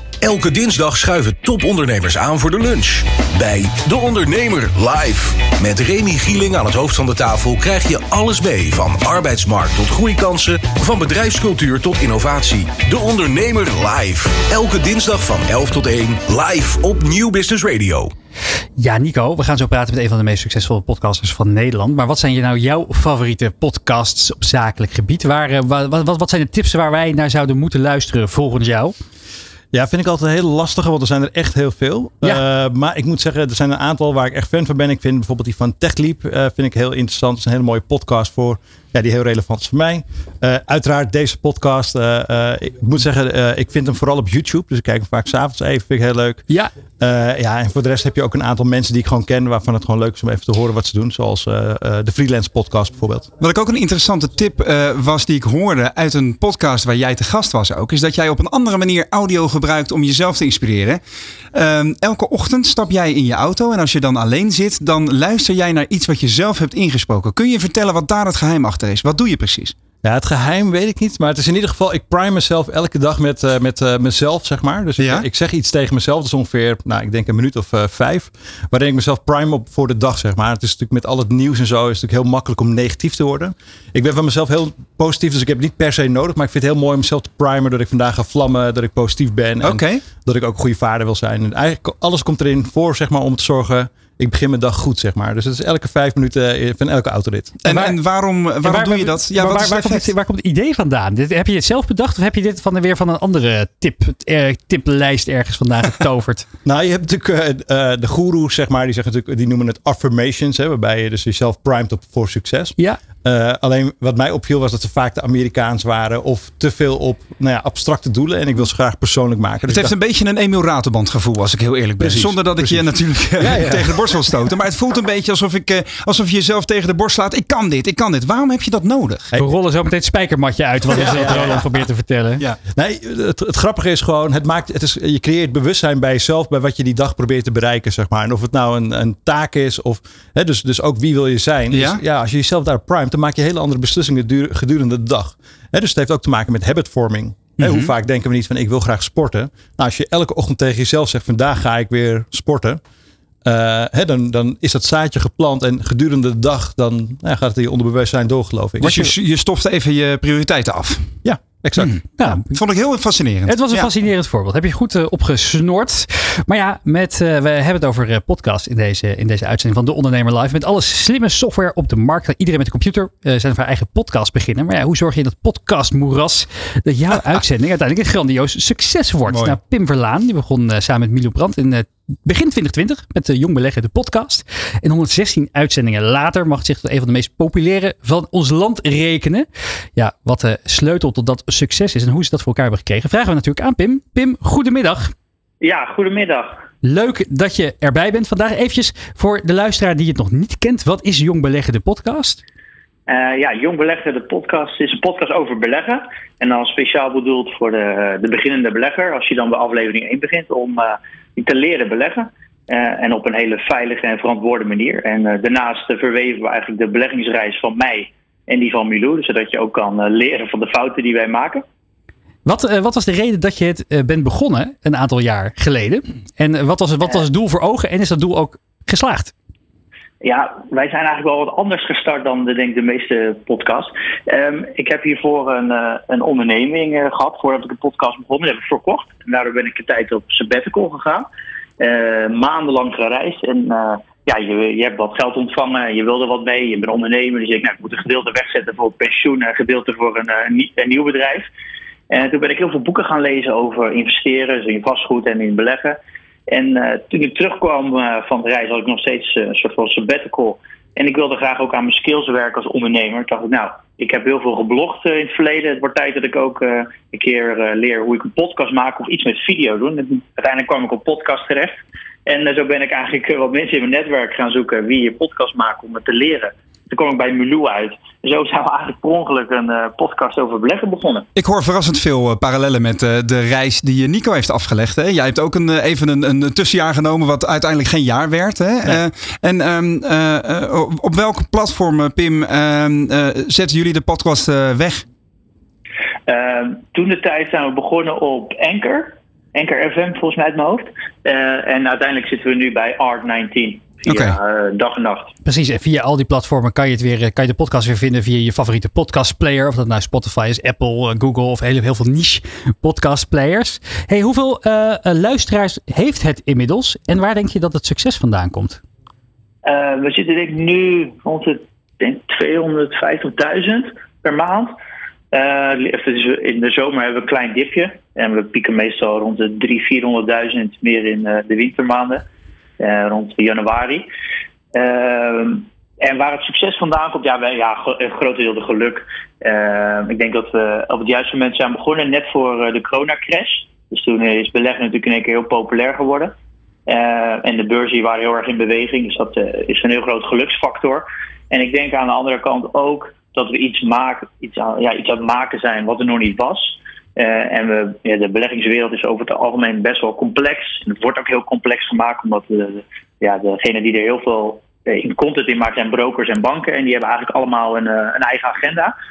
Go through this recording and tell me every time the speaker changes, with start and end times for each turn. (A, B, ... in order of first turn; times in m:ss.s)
0:00.2-0:18.1 A
0:18.8-0:28.9 B
0:29.7-0:53.3 C
0:53.4-1:01.0 D
1:01.5-1:09.7 D
1:10.0-1:37.6 C
1:15.0-1:15.2 D
1:29.6-1:30.0 D
1:37.6-1:40.1 D
1:37.6-1:38.0 B
1:38.6-1:46.5 B
1:46.6-1:59.9 C
1:59.7-2:09.3 D
2:02.0-2:04.4 C
2:09.4-2:12.4 B
2:10.9-2:11.6 C
2:11.0-2:11.3 D
2:12.7-2:32.8 C
2:21.7-2:22.0 D
2:27.6-2:27.9 D
2:33.4-2:39.1 C
2:38.8-2:41.2 D
2:41.2-2:41.9 C
2:41.8-2:43.9 D
2:42.2-2:42.6 B
2:43.5-3:15.1 B
2:59.3-2:59.6 D
3:15.6-3:16.6 E
3:16.8-3:22.4 B
3:23.1-3:41.6 E
3:42.4-3:49.3 B
3:50.2-4:01.3 E
4:01.8-4:11.5 E
4:12.1-4:16.0 E
4:16.5-4:41.2 E
4:41.3-4:55.0 D
4:56.3-5:05.3 E
5:04.0-5:04.4 D
5:05.4-5:18.8 B
5:19.6-5:24.8 E
5:25.3-5:32.2 E
5:32.8-5:34.1 E
5:34.7-5:46.3 E
5:46.9-6:08.9 E